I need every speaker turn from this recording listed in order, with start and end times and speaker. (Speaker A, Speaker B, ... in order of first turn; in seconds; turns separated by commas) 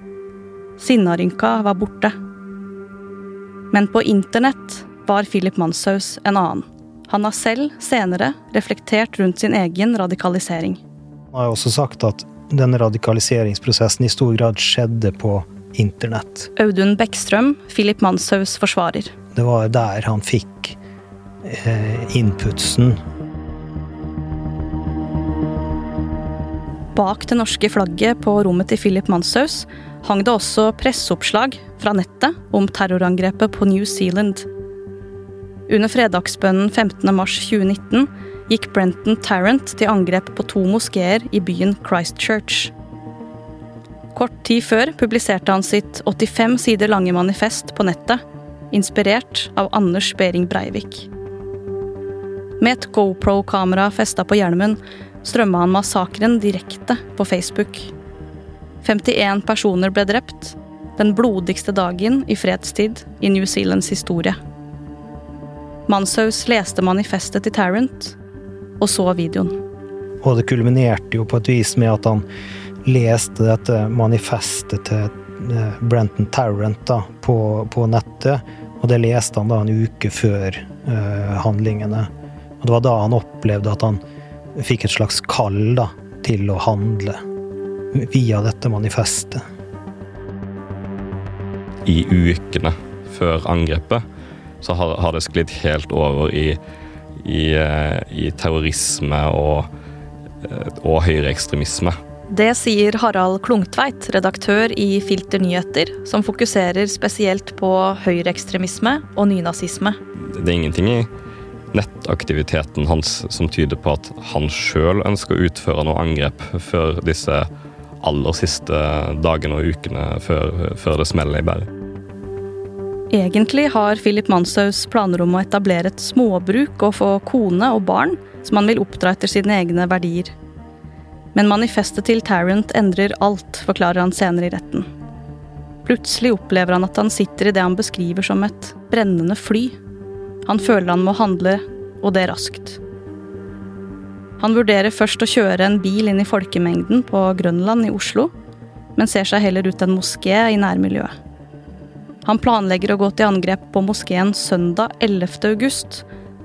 Speaker A: 0.8-2.1, Speaker A: 3.7-10.8, Speaker B: 11.3-16.5, Speaker A: 16.6-19.1, Speaker B: 19.3-20.8, Speaker B: 21.4-23.0, Speaker A: 26.9-34.5, Speaker A: 35.7-42.7, Speaker A: 44.1-51.1, Speaker A: 52.6-57.9, Speaker A: 58.8-64.4, Speaker A: 65.9-68.2, Speaker A: 68.8-69.6, Speaker B: 70.2-72.2, Speaker B: 72.8-82.1, Speaker B: 82.6-84.0, Speaker B: 84.5-87.2, Speaker B: 87.9-89.4, Speaker C: 91.8-94.0, Speaker C: 94.6-96.6, Speaker C: 97.2-99.7, Speaker C: 100.4-102.0, Speaker A: 102.3-110.0, Speaker C: 110.2-111.1, Speaker C: 111.7-117.5, Speaker C: 118.0-121.7, Speaker A: 123.1-130.3, Speaker A: 131.3-134.9, Speaker A: 135.8-139.8, Speaker A: 140.4-142.8, Speaker A: 144.4-148.3, Speaker A: 148.9-151.1, Speaker A: 152.2-156.0